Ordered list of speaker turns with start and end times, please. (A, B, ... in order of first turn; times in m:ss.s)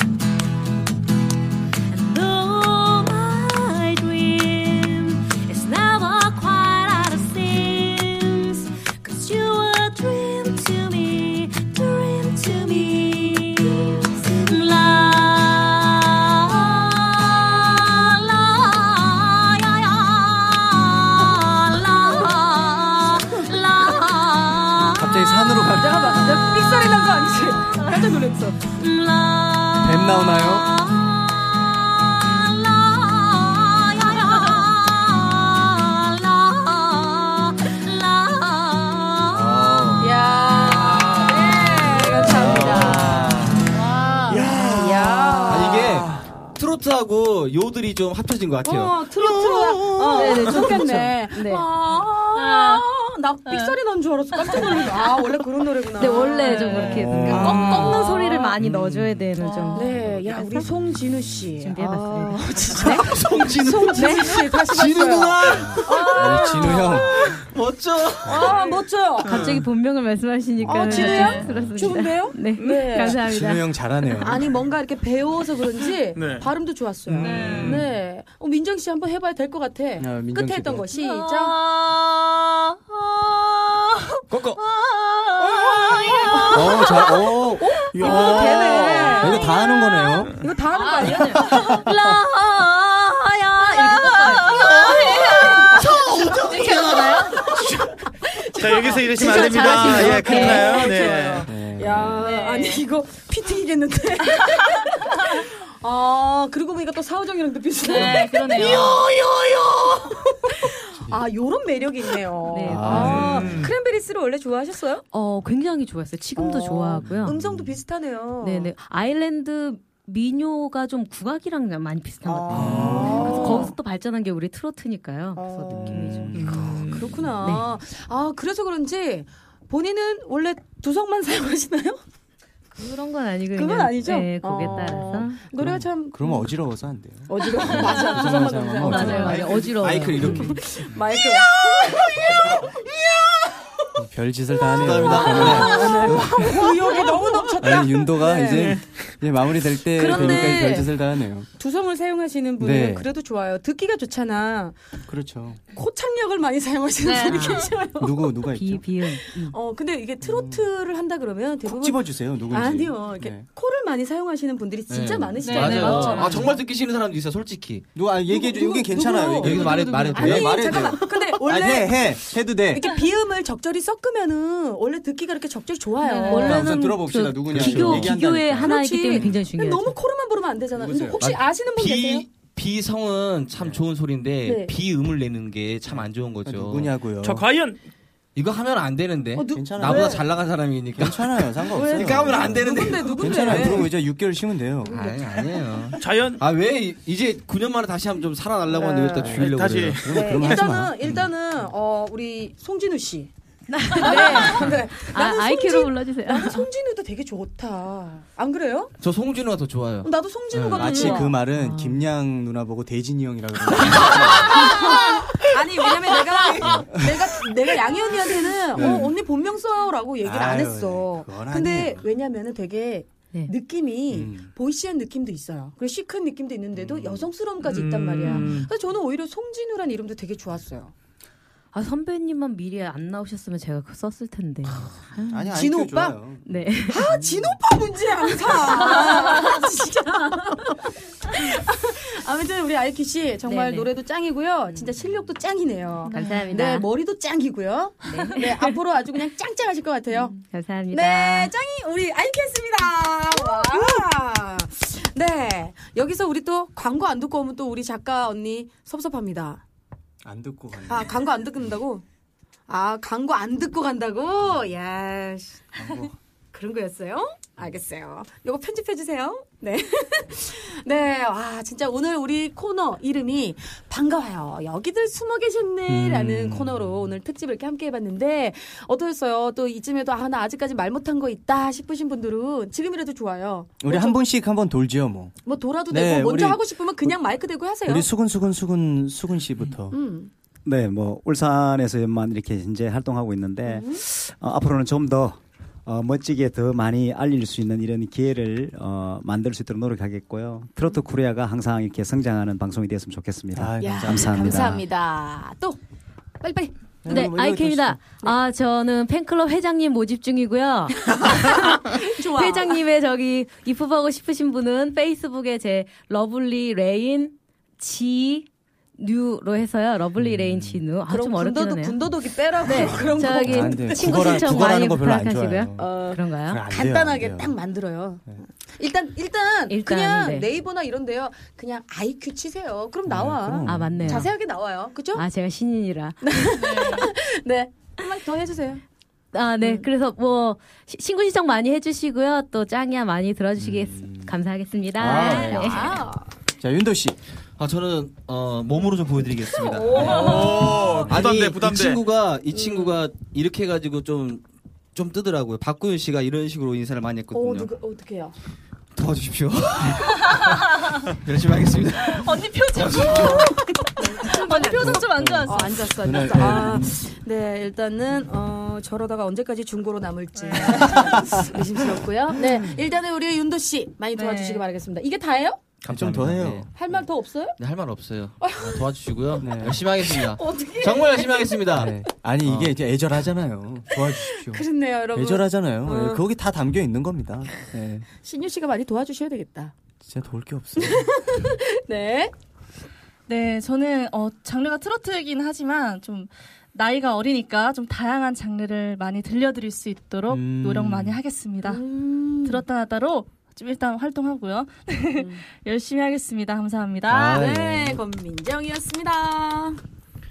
0:01.9-0:25.3 A
0:24.8-0:26.4 B
0:25.7-0:28.6 C
0:26.0-0:28.0 A
0:28.7-0:39.8 A
0:29.8-0:30.7 B
0:39.3-0:40.1 B
0:40.0-0:43.5 C
0:40.9-0:41.8 D
0:41.8-0:42.3 A
0:42.5-0:43.3 D
0:42.5-0:42.8 B
0:42.6-0:43.4 E
0:43.7-0:44.4 F
0:44.3-0:45.9 C
0:44.3-0:46.4 D
0:45.5-0:49.1 E
0:48.6-0:58.5 C
0:49.5-0:50.2 D
0:50.1-0:51.6 A
0:52.4-0:52.8 F
0:53.5-0:53.8 F
0:54.4-0:54.9 F
0:56.0-0:59.9 A
0:56.1-0:57.9 F
0:56.9-0:58.0 B
0:58.6-0:59.3 B
0:59.4-1:00.0 F
0:59.7-1:07.4 C
1:00.0-1:00.2 B
1:01.6-1:03.1 A
1:02.8-1:06.5 E
1:04.0-1:04.4 A
1:05.5-1:07.2 B
1:07.2-1:08.6 E
1:08.2-1:09.4 C
1:09.2-1:14.2 A
1:09.2-1:09.6 D
1:10.6-1:13.2 C
1:10.8-1:11.5 F
1:11.4-1:11.8 B
1:13.1-1:14.4 B
1:14.2-1:21.5 C
1:16.1-1:16.5 D
1:17.2-1:17.8 B
1:17.2-1:17.8 F
1:17.2-1:17.8 D
1:20.0-1:20.8 B
1:20.9-1:27.4 A
1:24.3-1:24.6 E
1:26.2-1:29.4 C
1:26.5-1:28.4 B
1:27.9-1:29.3 D
1:28.0-1:37.6 A
1:29.2-1:30.3 B
1:30.4-1:31.6 C
1:34.0-1:35.8 C
1:34.3-1:34.7 F
1:35.8-1:38.0 D
1:38.2-1:55.0 C
1:38.6-1:41.5 D
1:39.2-1:41.0 A
1:41.5-1:42.2 B
1:42.2-1:42.8 F
1:47.8-1:49.0 F
1:48.0-1:48.9 A
1:52.5-1:53.5 A
1:52.6-1:53.6 B
1:52.9-1:53.8 D
1:55.1-1:57.4 A
1:56.4-1:58.7 C
1:57.0-1:57.7 B
1:58.4-2:06.7 A
2:02.2-2:03.7 C
2:02.5-2:03.4 B
2:02.5-2:03.7 D
2:05.3-2:12.0 C
2:05.7-2:07.0 B
2:06.3-2:07.2 D
2:07.4-2:07.7 A
2:12.8-2:15.4 A
2:13.5-2:16.5 C
2:15.5-2:21.0 B
2:17.3-2:19.6 C
2:18.8-2:20.5 A
2:18.9-2:19.2 F
2:19.2-2:20.6 E
2:20.2-2:22.8 C
2:24.0-2:27.0 B
2:24.7-2:26.4 E
2:24.9-2:28.8 C
2:27.6-2:31.5 B
2:28.5-2:28.8 D
2:29.9-2:30.9 C
2:31.6-2:34.8 C
2:32.6-2:33.1 B
2:35.1-2:35.6 B
2:35.7-2:38.4 C
2:37.0-2:37.7 F
2:37.3-2:37.7 A
2:38.0-2:38.8 B
2:38.4-2:39.6 A
2:39.2-2:46.5 C
2:40.2-2:40.6 B
2:41.6-2:43.4 B
2:44.9-2:47.9 E
2:45.4-2:46.4 F
2:45.9-2:46.4 A
2:47.9-2:52.8 B
2:48.3-2:56.7 C
2:49.3-2:50.8 E
2:49.9-2:50.2 F
2:56.0-2:56.4 F
2:56.1-2:59.9 A
2:56.3-2:59.3 B
2:57.5-2:58.1 E
2:58.6-3:02.2 C
3:00.7-3:01.3 B
3:01.2-3:06.9 E
3:03.6-3:03.8 B
3:04.4-3:04.7 C
3:05.9-3:07.4 B
3:07.2-3:07.8 D
3:08.3-3:13.9 E
3:09.3-3:10.2 C
3:09.5-3:10.3 B
3:11.0-3:15.2 B
3:11.7-3:13.9 C
3:14.8-3:20.5 E
3:16.0-3:16.4 D
3:18.7-3:19.4 C
3:19.2-3:21.2 B
3:19.3-3:20.2 D
3:20.1-3:23.3 C
3:23.7-3:26.6 A
3:23.9-3:28.9 C
3:29.0-3:31.1 E
3:30.0-3:31.4 C
3:30.7-3:34.8 B
3:31.5-3:32.0 A
3:33.8-3:50.9 C
3:36.6-3:37.3 B
3:38.7-3:39.1 B
3:40.2-3:42.0 B
3:44.1-3:44.5 B
3:46.7-3:47.3 B
3:47.6-3:48.7 D
3:51.7-3:55.4 A
3:54.7-3:56.4 B
3:55.5-3:56.2 C
3:56.4-3:57.2 A
3:56.9-4:10.3 C
3:57.0-3:57.5 B
4:03.4-4:03.9 A
4:06.1-4:06.5 F
4:06.1-4:06.8 A
4:08.0-4:08.8 A
4:10.1-4:11.5 A
4:10.9-4:19.6 C
4:20.2-4:21.2 B
4:20.9-4:22.0 C
4:22.7-4:44.2 C
4:25.7-4:26.1 B
4:35.9-4:37.1 B
4:43.8-4:45.4 B
4:45.4-4:48.1 C
4:45.9-4:47.2 B
4:47.8-4:50.0 B
4:49.9-4:50.3 C
4:50.6-5:04.8 G
4:53.6-4:54.0 C
5:03.6-5:04.8 B
5:03.8-5:05.8 C
5:06.4-5:07.3 C
5:07.0-5:08.0 B
5:07.1-5:18.5 A
5:11.1-5:12.8 C
5:19.0-5:22.0 A
5:20.2-5:20.8 B
5:21.1-5:24.9 C
5:22.6-5:26.6 A
5:22.6-5:25.9 B
5:25.8-5:35.2 C
5:26.5-5:27.5 B
5:29.7-5:30.5 A
5:33.0-5:34.3 B
5:33.6-5:34.3 A
5:35.1-5:36.5 A
5:36.2-5:38.8 C
5:36.6-5:37.1 F
5:39.3-5:46.0 A
5:39.6-5:39.9 C
5:43.6-5:44.3 B
5:45.0-5:45.9 B
5:45.1-5:46.3 C
5:45.4-5:45.8 E
5:46.6-5:47.2 B
5:47.6-5:54.4 E
5:49.6-5:51.1 C
5:50.0-5:52.0 D
5:52.5-5:53.0 C
5:54.9-5:57.7 E
5:57.3-5:58.3 C
5:58.9-6:00.3 E
6:01.0-6:03.6 E
6:02.0-6:03.5 F
6:03.1-6:15.6 C
6:04.2-6:06.8 F
6:04.8-6:07.0 B
6:10.3-6:11.2 F
6:11.0-6:12.7 B
6:14.1-6:14.6 F
6:15.8-6:16.9 E
6:15.9-6:16.7 B
6:16.7-6:17.6 C
6:17.6-6:22.8 E
6:18.4-6:19.4 C
6:19.4-6:19.8 B
6:20.0-6:21.9 C
6:21.7-6:28.1 B
6:23.9-6:26.2 C
6:28.2-6:29.7 C
6:30.0-6:31.1 B
6:30.8-6:32.3 C
6:33.3-6:41.8 F
6:40.3-6:41.2 B
6:41.6-6:42.6 C
6:42.4-6:47.4 F
6:45.2-6:45.4 C
6:47.0-6:48.0 B
6:47.1-6:49.8 C